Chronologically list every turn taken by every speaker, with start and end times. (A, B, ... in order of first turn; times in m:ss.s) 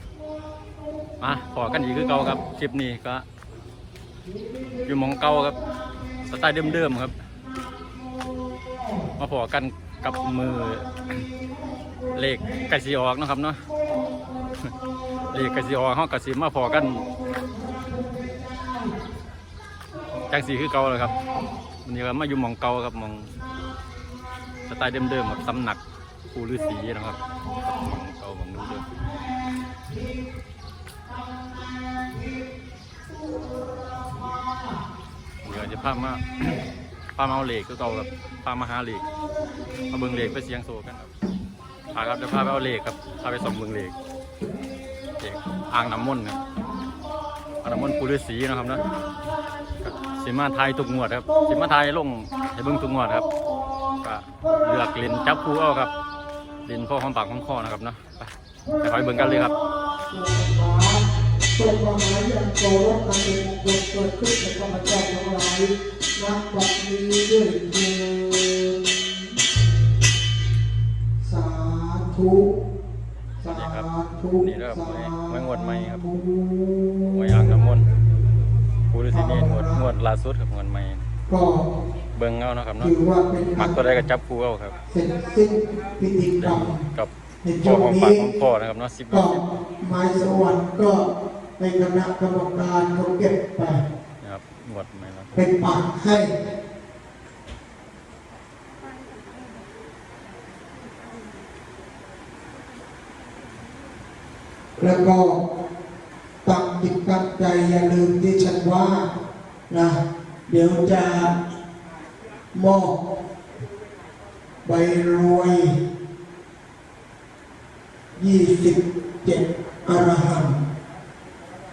0:01.2-0:03.3 A
0:04.9-0:05.6 A
0:06.3-0:07.2 A
0:09.2-0:11.3 A
0:12.1-0:13.7 A
0:15.3-0:17.1 A
0:20.3-0:21.2 A
0:21.8-0:23.4 A
0:24.7-0:28.9 A
0:35.4-0:36.6 A
0:37.2-0:39.1 A
0:39.9-0:41.1 A
0:41.9-0:44.0 A
0:45.2-0:46.4 A
0:47.6-0:48.8 A
0:49.8-0:53.3 A
0:54.0-0:55.9 A
0:56.6-0:59.6 A
1:00.1-1:01.0 B
1:01.6-1:08.8 B
1:11.2-1:12.5 B
1:13.4-1:17.6 B
1:13.5-1:16.0 A
1:17.1-1:17.9 A
1:18.9-1:21.0 A
1:19.1-1:19.9 B
1:21.3-1:21.7 B
1:22.1-1:22.9 A
1:22.8-1:23.8 B
1:23.6-1:24.8 A
1:24.9-1:26.8 B
1:26.4-1:27.1 A
1:27.4-1:28.2 B
1:27.6-1:29.4 A
1:29.1-1:33.8 B
1:34.2-1:35.4 A
1:35.4-1:36.3 B
1:44.8-1:45.4 B
1:46.4-1:49.1 B
1:49.7-1:51.4 B
1:52.5-1:53.0 B
1:54.6-1:55.8 B
1:58.2-2:00.6 B